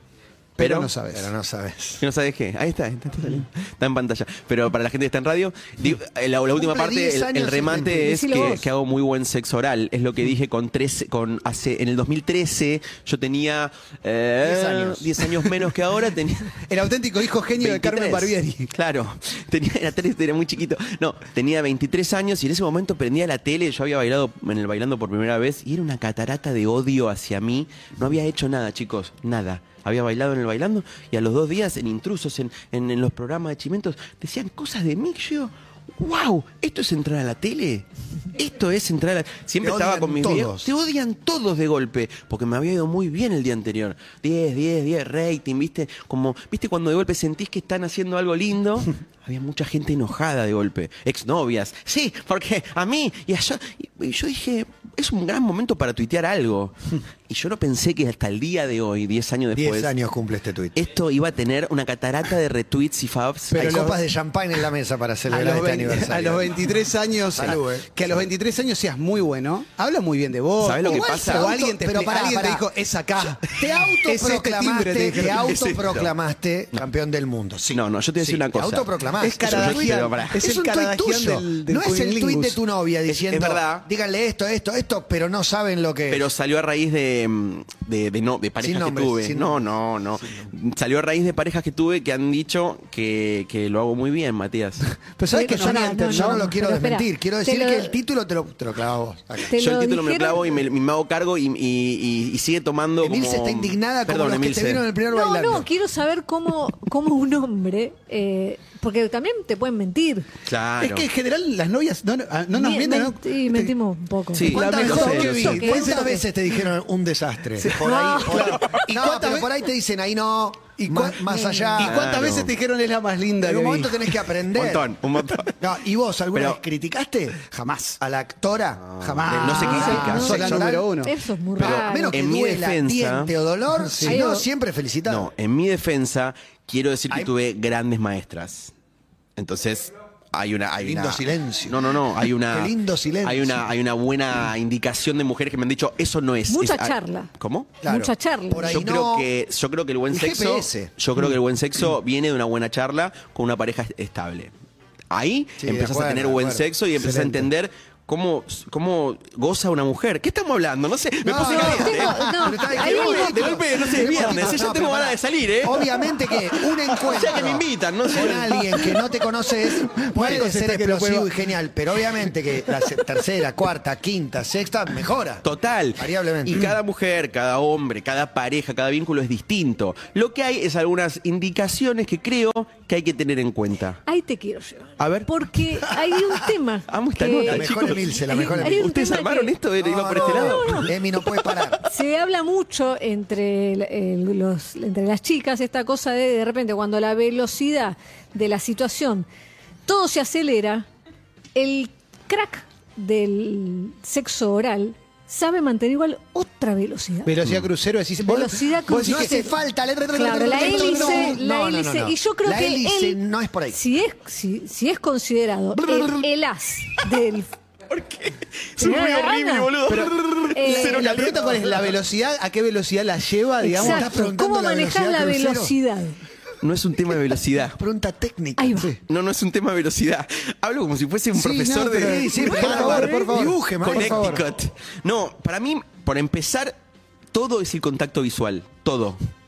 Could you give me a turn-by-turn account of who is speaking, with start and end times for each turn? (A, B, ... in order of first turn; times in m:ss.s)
0:00.6-0:00.9 A
0:00.6-0:01.3 B
0:01.1-0:02.0 C
0:02.0-0:16.6 A
0:06.6-0:08.3 C
0:08.0-0:08.6 D
0:14.4-0:15.3 C
0:16.6-0:18.7 B
0:17.5-0:56.8 A
0:39.6-0:40.7 C
0:57.3-0:59.9 A
0:59.6-1:00.8 C
1:00.8-1:03.8 A
1:03.5-1:04.0 B
1:03.5-1:06.6 C
1:05.3-1:15.5 B
1:07.3-1:07.9 C
1:10.6-1:11.5 A
1:10.8-1:12.6 C
1:13.5-1:17.8 C
1:15.4-1:16.1 A
1:17.7-1:20.4 A
1:18.4-1:26.3 C
1:19.2-1:22.6 B
1:23.1-1:23.9 A
1:26.1-1:34.8 A
1:28.6-1:29.6 C
1:30.2-1:30.5 C
1:35.2-1:36.5 B
1:35.3-1:37.9 D
1:35.4-1:39.5 C
1:39.5-1:40.5 D
1:39.5-1:44.8 A
1:43.0-1:45.7 C
1:45.1-1:50.2 D
1:50.4-1:51.1 A
1:50.8-1:53.7 B
1:52.5-1:56.2 D
1:54.3-1:55.8 A
1:54.5-1:56.2 B
1:54.5-2:02.1 C
1:57.6-1:59.5 B
1:57.8-1:58.8 D
2:00.8-2:04.1 B
2:01.3-2:01.8 D
2:01.8-2:02.5 A
2:03.4-2:04.9 C
2:04.5-2:05.6 A
2:05.6-2:10.9 C
2:06.3-2:06.6 A
2:07.5-2:08.0 B
2:08.8-2:10.6 A
2:09.0-2:11.1 B
2:09.6-2:12.2 D
2:11.6-2:15.3 C
2:11.6-2:13.3 A
2:13.8-2:14.2 B
2:14.0-2:14.5 D
2:15.1-2:18.7 A
2:19.4-2:27.7 A
2:20.8-2:21.9 C
2:22.5-2:23.6 C
2:26.5-2:27.3 D
2:27.8-2:29.3 C
2:27.8-2:28.8 D
2:28.7-2:34.5 A
2:30.1-2:30.9 C
2:35.1-2:49.0 A
2:35.6-2:36.6 C
2:37.0-2:37.5 B
2:41.2-2:55.4 C
2:41.4-2:43.6 D
2:50.0-2:51.3 B
2:55.4-3:04.0 A
2:56.0-2:56.7 C
3:04.1-3:09.5 D
3:05.0-3:05.3 A
3:06.9-3:10.9 A
3:07.5-3:08.9 C
3:09.8-3:11.8 C
3:10.1-3:10.9 D
3:11.8-3:19.3 D
3:19.9-3:20.9 D
3:21.6-3:27.3 D
3:27.2-3:29.5 B
3:28.2-3:29.6 D
3:29.0-3:33.8 C
3:30.1-3:31.4 B
3:30.1-3:33.2 D
3:33.7-3:37.5 D
3:37.9-3:42.0 A
3:38.8-3:39.8 D
3:39.9-3:44.1 B
3:40.5-3:41.1 D
3:43.6-3:46.2 D
3:43.8-3:45.7 C
3:46.6-3:47.8 A
3:47.8-3:48.9 C
3:48.6-3:48.9 D
3:49.1-3:53.1 A
3:51.3-3:54.4 B
3:52.0-3:54.4 C
3:52.4-3:53.3 D
3:53.8-3:56.7 A
3:57.3-3:59.2 A